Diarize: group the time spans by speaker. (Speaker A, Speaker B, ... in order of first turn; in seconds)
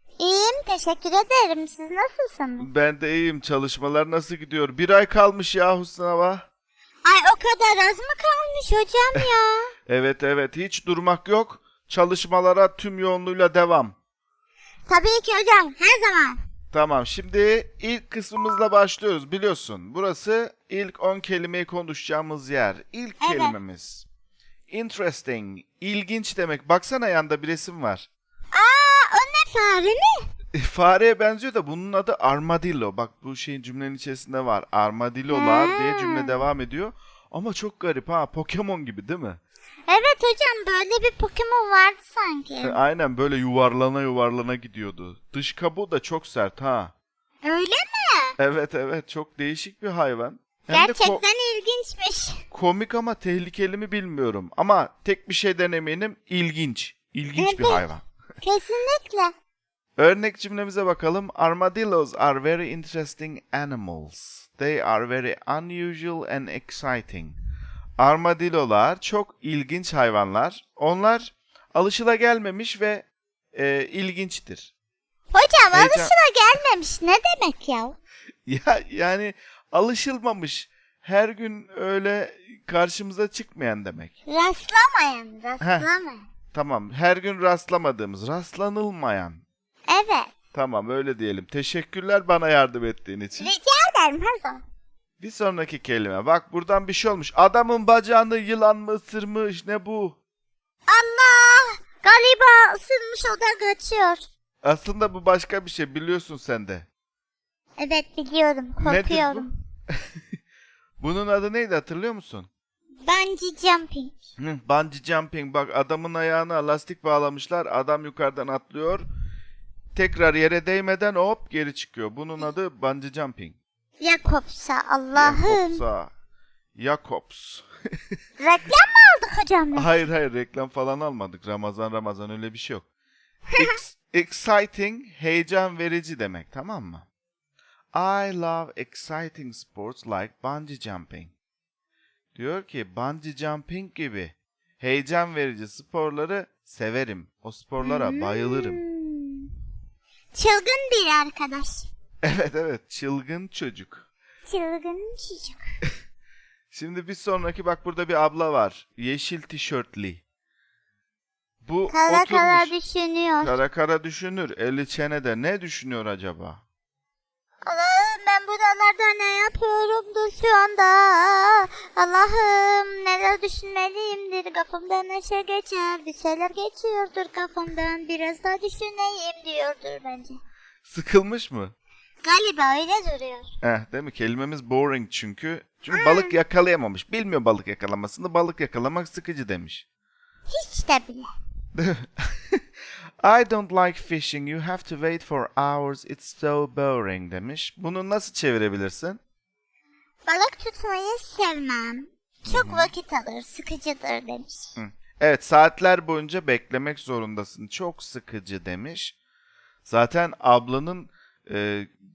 Speaker A: 0.2-2.7, 7.0-9.7, 14.9-16.4, 23.2-23.6, 28.5-30.2, 35.3-36.3, 39.9-42.8, 47.4-48.4, 50.7-52.4, 57.4-57.9, 58.4-59.3, 75.3-78.0, 84.2-86.2, 89.9-90.3, 93.4-94.6, 100.9-104.2, 107.8-109.5, 113.0-114.2, 124.0-125.8, 128.4-130.0, 147.8-149.5, 150.3-151.9, 154.5-155.6, 161.9-163.5, 167.6-180.4, 182.2-183.5, 185.9-186.3, 190.5-191.3, 200.3-204.7
Speaker B: 2.6-6.4, 9.9-13.9, 16.7-24.1, 24.7-28.1, 30.6-39.4, 42.6-46.9, 48.4-51.2, 52.5-58.0, 60.0-67.4, 68.0-74.7, 75.7-76.1, 78.5-84.1, 85.6-85.9, 86.5-89.4, 90.5-93.5, 95.2-100.2, 104.6-106.9, 108.8-110.0, 111.0-112.5, 114.4-119.0, 119.9-123.6, 125.2-126.1, 126.8-128.0, 129.8-132.9, 133.6-137.1, 137.9-141.3, 142.3-148.8, 152.2-154.0, 156.7-160.2, 161.7-162.7, 163.4-166.6, 180.9-181.8, 183.6-189.8, 191.8-192.6, 193.2-199.2, 202.5-202.9, 204.8-209.1, 209.8-211.9